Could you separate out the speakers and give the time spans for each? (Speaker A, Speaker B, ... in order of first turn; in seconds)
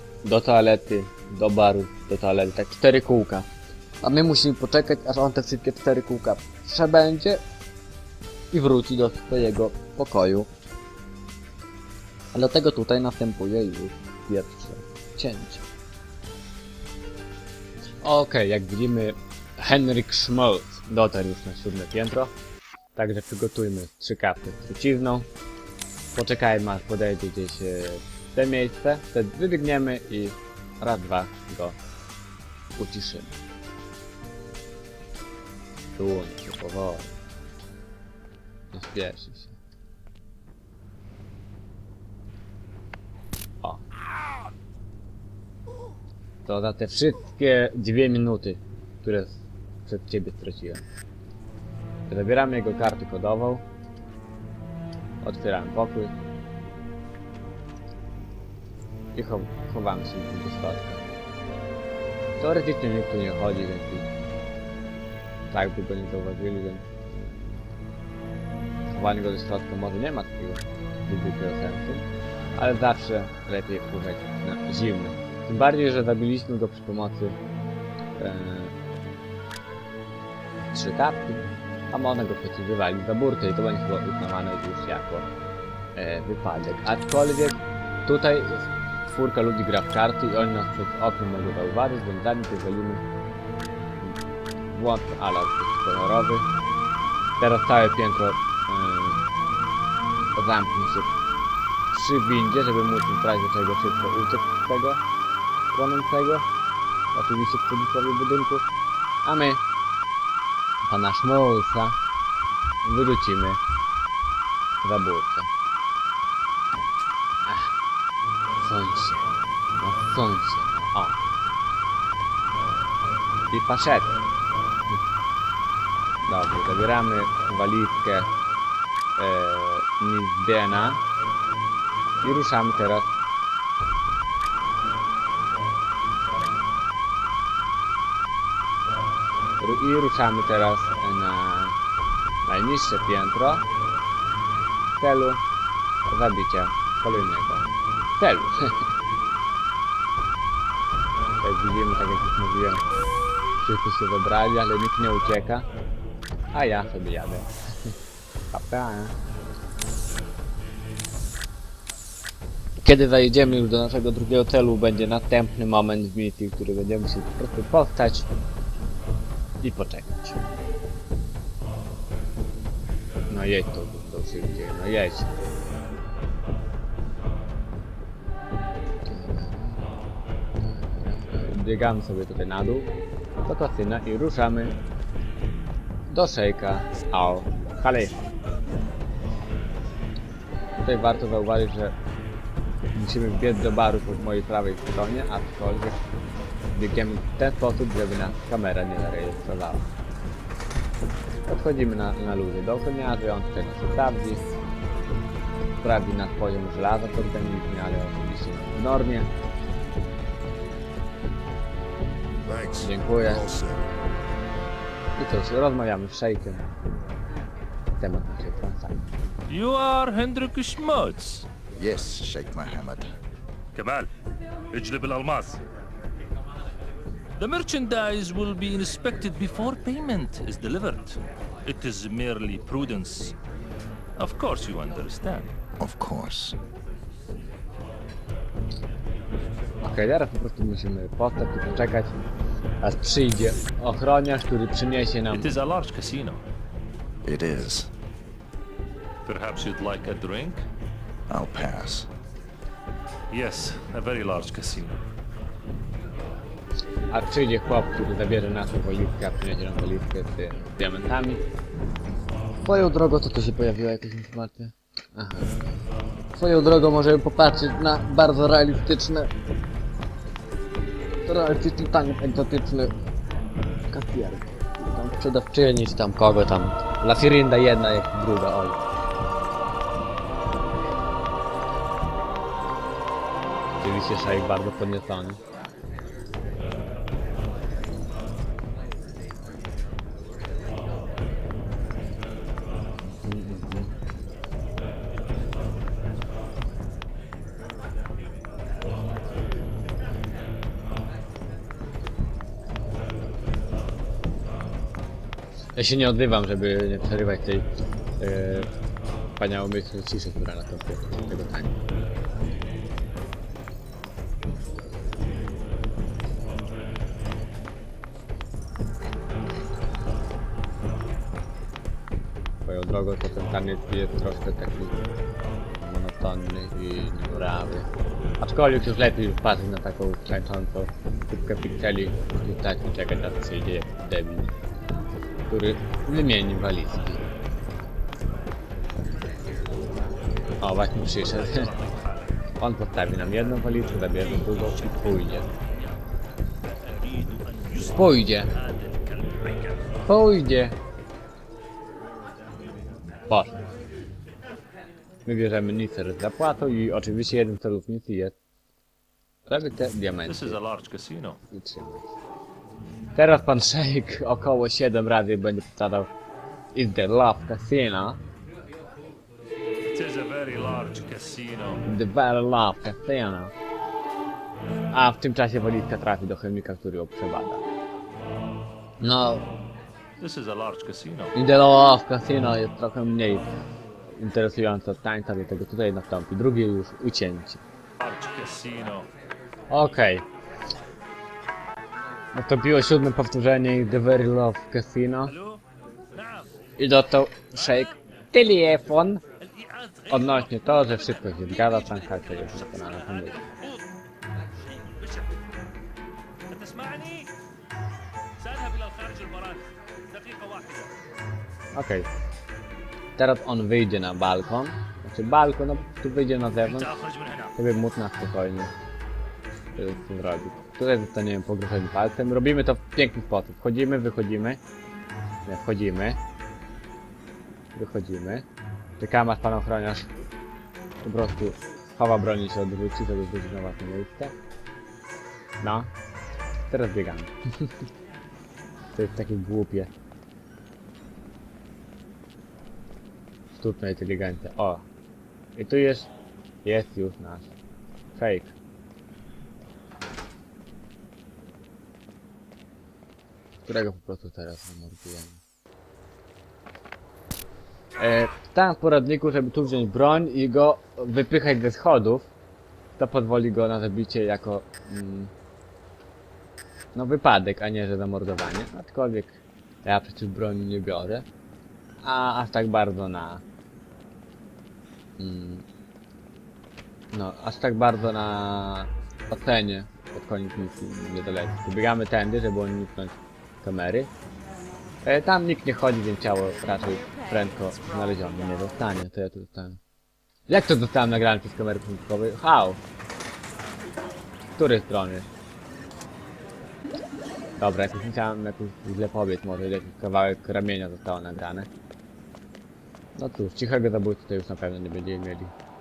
Speaker A: 0.2-3.5, 4.0-7.4, 8.5-10.4, 12.4-15.5, 18.0-22.3, 23.0-25.3, 26.1-31.8, 32.8-33.4, 36.0-37.1, 38.7-39.6, 46.5-50.9, 52.1-53.6, 55.2-56.1, 59.1-61.0, 62.4-64.1, 65.5-67.6, 68.9-77.4, 78.2-78.7, 80.6-85.3, 86.0-93.0, 94.7-96.5, 97.4-99.2, 100.3-101.1, 101.9-105.0, 105.7-106.5, 107.1-108.7, 109.2-109.6, 110.8-112.0, 112.8-113.6, 114.8-115.5, 117.5-117.8, 118.6-121.2, 123.5-124.1, 126.3-128.3, 129.2-131.0, 132.2-133.1, 139.6-141.8, 142.4-143.6, 145.0-145.4, 146.1-148.8, 151.4-152.8, 153.6-155.7, 156.5-157.9, 158.5-159.2, 162.8-168.3, 169.6-170.4, 173.3-175.3, 179.1-179.8, 180.6-182.9, 183.4-184.7, 186.1-188.2, 190.8-191.9, 192.9-196.0, 196.7-199.9, 201.5-204.4, 205.8-209.3, 212.8-213.5, 215.2-216.7, 218.0-219.1, 239.8-242.1, 242.8-245.5, 257.1-261.4, 262.6-264.6, 265.2-265.5, 266.4-269.2, 271.3-272.9, 273.9-278.8, 283.8-285.4, 293.2-293.9, 305.8-307.7, 308.2-308.7, 309.4-311.8, 322.6-325.0, 325.8-327.9, 328.4-334.5, 335.5-337.2, 340.6-341.7, 342.6-345.5, 347.8-348.5, 350.1-350.8, 353.3-353.6, 355.2-358.3, 359.5-360.6, 361.5-362.1, 363.1-366.1, 366.7-368.2, 371.8-373.5, 374.9-377.6, 379.0-379.4, 381.3-383.5, 384.2-387.6, 389.7-390.2, 392.3-395.4, 396.8-399.2, 400.1-403.4, 411.7-412.1, 413.2-416.9, 417.6-418.7, 419.8-424.6, 425.4-426.2, 427.7-428.5, 429.0-430.1, 431.0-434.3, 435.6-435.9, 436.7-437.7, 438.9-439.9, 443.6-444.9, 445.6-446.1, 446.6-447.5, 448.1-448.5, 453.6-455.4, 458.0-462.3, 463.0-465.3, 466.9-471.3, 472.0-473.4, 475.2-475.6, 477.1-484.1, 485.0-489.8, 490.5-492.8, 494.6-495.3, 497.6-501.7, 503.2-505.5
Speaker B: 212.5-213.8, 221.8-223.1, 235.8-236.6, 247.2-247.9, 251.3-252.1
Speaker C: 219.5-221.5, 223.8-224.1, 224.7-225.6, 227.4-233.4, 234.2-235.5, 245.3-246.4, 249.3-250.6, 253.3-255.0, 341.4-342.3, 344.6-345.6, 346.9-349.8, 360.3-361.4, 369.9-371.8, 380.2-381.3, 388.0-389.1, 395.3-395.6, 396.1-396.5, 399.4-403.8, 405.0-405.3, 406.5-407.3, 408.4-410.9, 416.6-417.5